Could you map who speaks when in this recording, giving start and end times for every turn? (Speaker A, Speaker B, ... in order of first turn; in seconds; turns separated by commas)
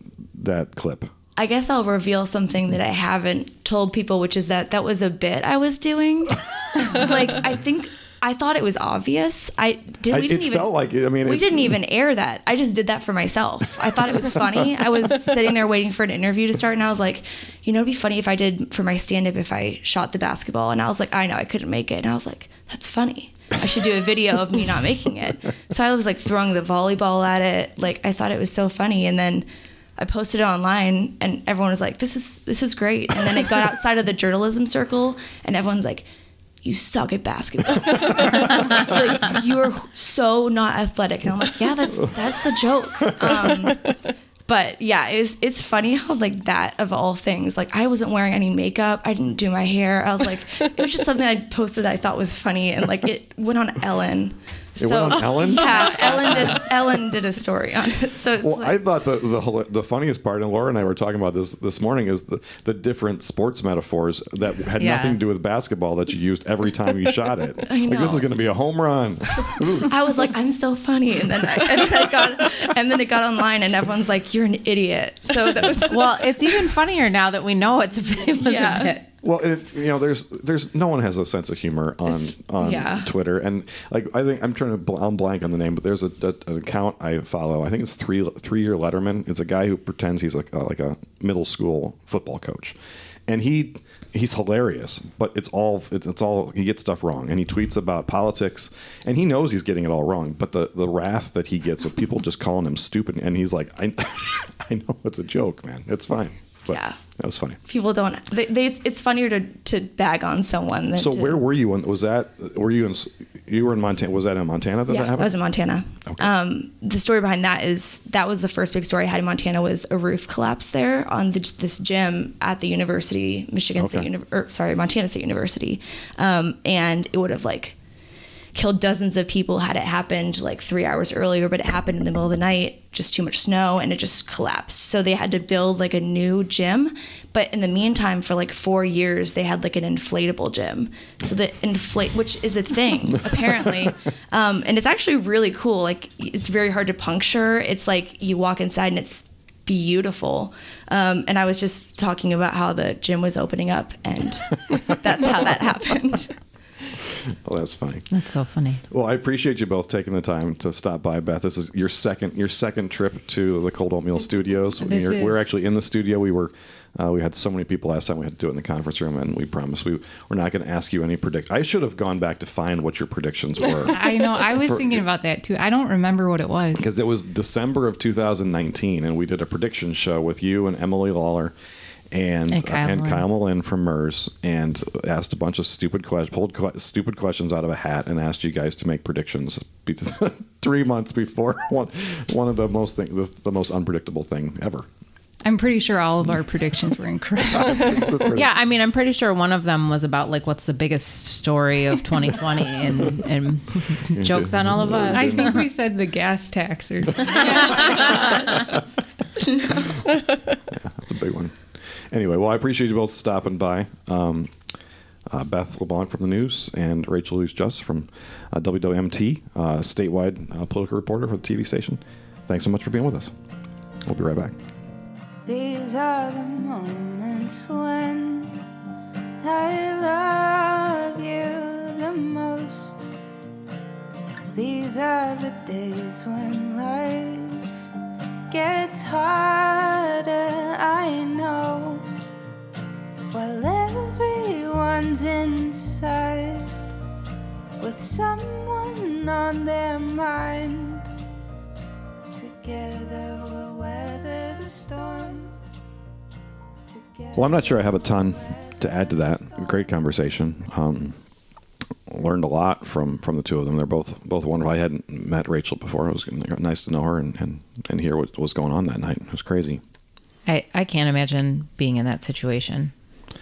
Speaker A: 0.3-1.1, Speaker B: 1.4-36.1, Speaker A: 10.1-11.7, Speaker B: 36.6-43.9, Speaker B: 44.5-58.8, Speaker A: 54.8-56.7, Speaker A: 58.4-70.0, Speaker C: 64.8-65.2, Speaker B: 67.7-68.3, Speaker B: 69.9-76.3, Speaker C: 75.9-79.0, Speaker B: 78.4-79.0, Speaker A: 79.2-92.8, Speaker B: 82.1-83.1, Speaker A: 93.3-107.6, Speaker B: 106.7-107.0, Speaker B: 107.7-111.4, Speaker A: 111.0-115.3, Speaker B: 114.9-127.8, Speaker A: 123.8-124.1, Speaker B: 128.5-156.3, Speaker A: 157.4-158.1, Speaker C: 158.1-158.8, Speaker A: 158.9-175.0, Speaker D: 164.8-165.5, Speaker D: 173.9-176.9, Speaker A: 176.8-181.5, Speaker A: 182.1-194.9, Speaker C: 182.5-183.2, Speaker D: 195.4-198.2, Speaker A: 197.6-198.5, Speaker C: 198.3-205.7, Speaker A: 204.2-205.6, Speaker D: 205.1-208.7, Speaker A: 210.7-211.6, Speaker A: 212.1-214.6, Speaker A: 215.3-223.3, Speaker A: 224.1-224.6, Speaker E: 225.4-228.6, Speaker E: 229.4-233.1, Speaker E: 234.5-237.7, Speaker E: 238.5-242.1, Speaker E: 243.3-246.7, Speaker E: 247.8-251.1, Speaker E: 252.3-255.6, Speaker E: 256.9-259.8, Speaker A: 257.3-261.2, Speaker A: 262.1-269.8, Speaker C: 270.5-272.9